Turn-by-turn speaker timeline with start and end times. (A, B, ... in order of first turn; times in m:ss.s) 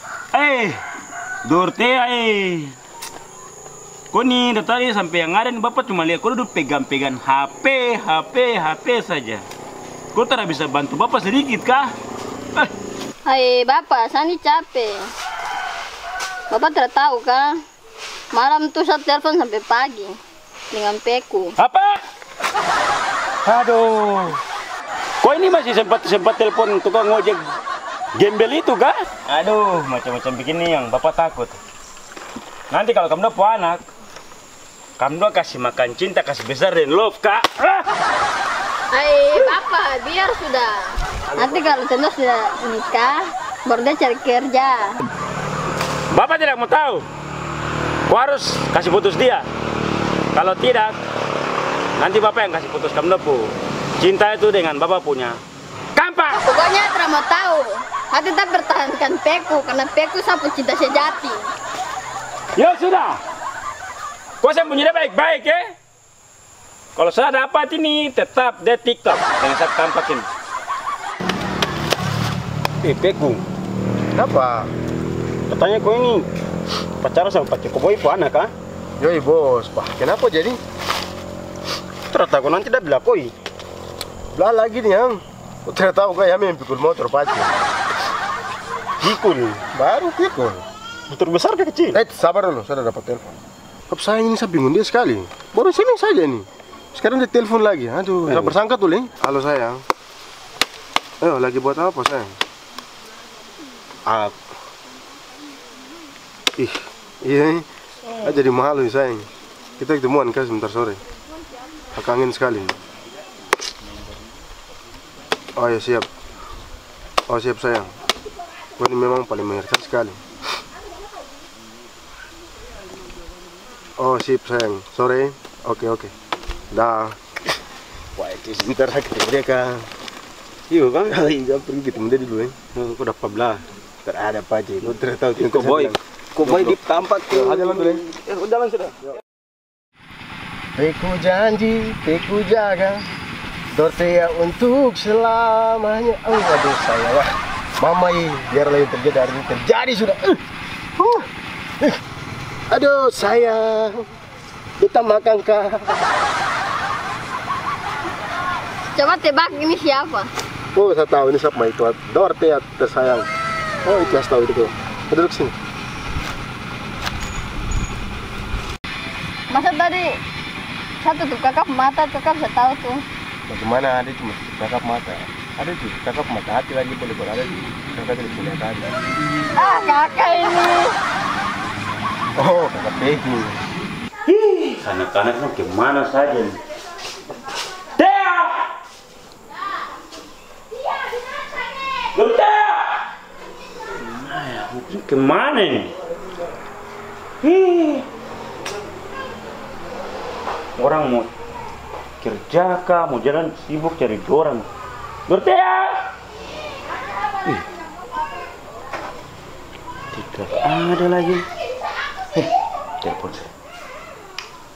0:00.3-0:00.8 A
0:01.4-0:02.7 A
0:04.1-0:09.4 A
0:10.1-0:11.9 A
0:13.2-0:15.1 B
0:16.5-0:17.6 B
0:18.3-0:20.2 B
0:20.7-0:21.5 B
0:21.6-0:22.0 A
0:23.4-0:24.4 A
0:25.2-0:27.5 A
0:28.2-0:31.6 A
0:32.7-0:33.8 A
0:35.0-0:37.9 A
0:38.9-0:45.0 B
0:41.3-0:41.7 C
0:46.1-0:47.0 A
0:48.1-0:49.5 A
0:50.3-0:51.0 A
0:52.0-0:55.4 A
0:55.9-0:56.4 A
0:56.4-1:01.5 B
1:02.6-1:03.2 A
1:04.4-1:05.6 A
1:07.0-1:10.3 A
1:12.8-1:13.4 A
1:14.1-1:14.7 C
1:15.5-1:16.3 A
1:17.0-1:18.5 A
1:19.0-1:20.6 C
1:22.1-1:23.3 A
1:24.3-1:27.5 C
1:29.0-1:29.6 A
1:29.7-1:30.6 C
1:31.1-1:32.0 A
1:31.9-1:33.3 C
1:33.9-1:39.8 C
1:38.3-1:38.6 A
1:41.2-1:42.4 C
1:44.0-1:44.3 C
1:46.6-1:47.6 C
1:48.2-1:51.0 C
1:51.9-1:52.8 C
1:55.6-1:56.1 C
1:57.3-1:57.9 C
1:58.8-2:00.2 C
2:04.0-2:06.1 C
2:06.7-2:07.2 C
2:08.2-2:09.9 C
2:10.7-2:11.3 A
2:11.1-2:12.6 C
2:12.7-2:13.6 A
2:14.0-2:16.8 C
2:14.8-2:19.0 A
2:17.3-2:18.0 C
2:20.8-2:23.1 C
2:23.7-2:30.4 C
2:31.0-2:31.2 C
2:32.7-2:34.1 C
2:34.8-2:36.0 C
2:38.9-2:40.3 B
2:40.7-2:43.3 C
2:43.8-2:45.5 C
2:49.5-2:50.2 B
2:51.0-2:53.0 B
2:53.5-2:59.0 C
2:59.6-3:01.0 B
3:02.4-3:03.6 C
3:04.2-3:06.6 A
3:08.0-3:08.7 A
3:12.1-3:13.0 A
3:14.0-3:15.9 A
3:17.4-3:18.0 A
3:20.8-3:21.3 A
3:22.2-3:24.7 A
3:25.3-3:26.0 A
3:30.1-3:31.4 A
3:33.0-3:33.5 A